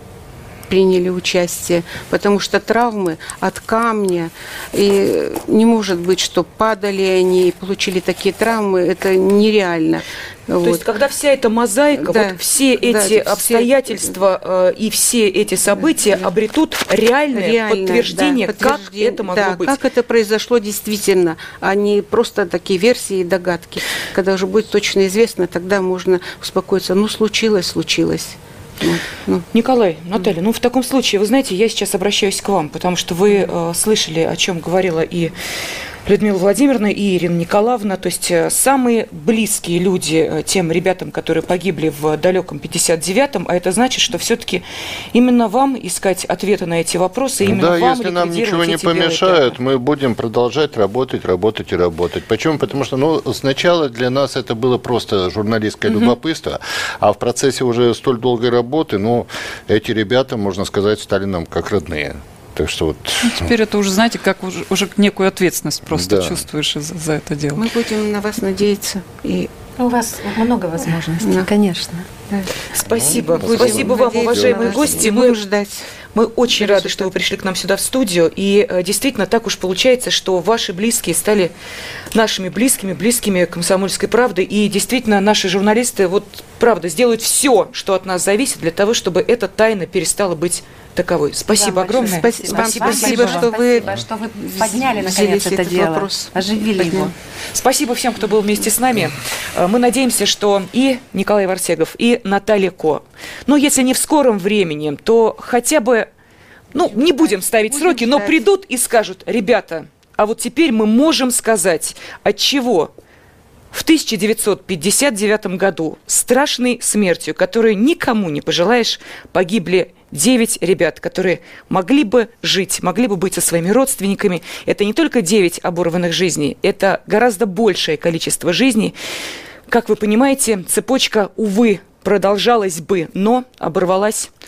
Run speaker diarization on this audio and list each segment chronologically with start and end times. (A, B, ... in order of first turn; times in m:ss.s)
0:00.7-0:10.8 A
0:10.6-0:19.8 B
0:12.0-0:14.1 A
0:15.8-0:16.3 A
0:17.3-0:29.4 A
0:29.5-0:35.3 B
0:36.0-0:49.5 B
0:47.4-1:03.5 C
1:03.2-1:07.7 D
1:05.9-1:06.4 C
1:07.5-1:09.6 A
1:09.8-1:12.1 E
1:10.8-1:11.5 A
1:12.3-1:15.9 A
1:12.7-1:15.4 B
1:13.0-1:15.0 C
1:16.1-1:21.5 B
1:16.5-1:17.3 A
1:22.1-1:33.4 B
1:31.5-1:37.1 E
1:32.0-1:37.1 A
1:37.5-1:46.1 B
1:46.7-1:52.9 B
1:46.7-1:48.5 A
1:53.7-2:08.9 B
2:09.7-2:14.3 B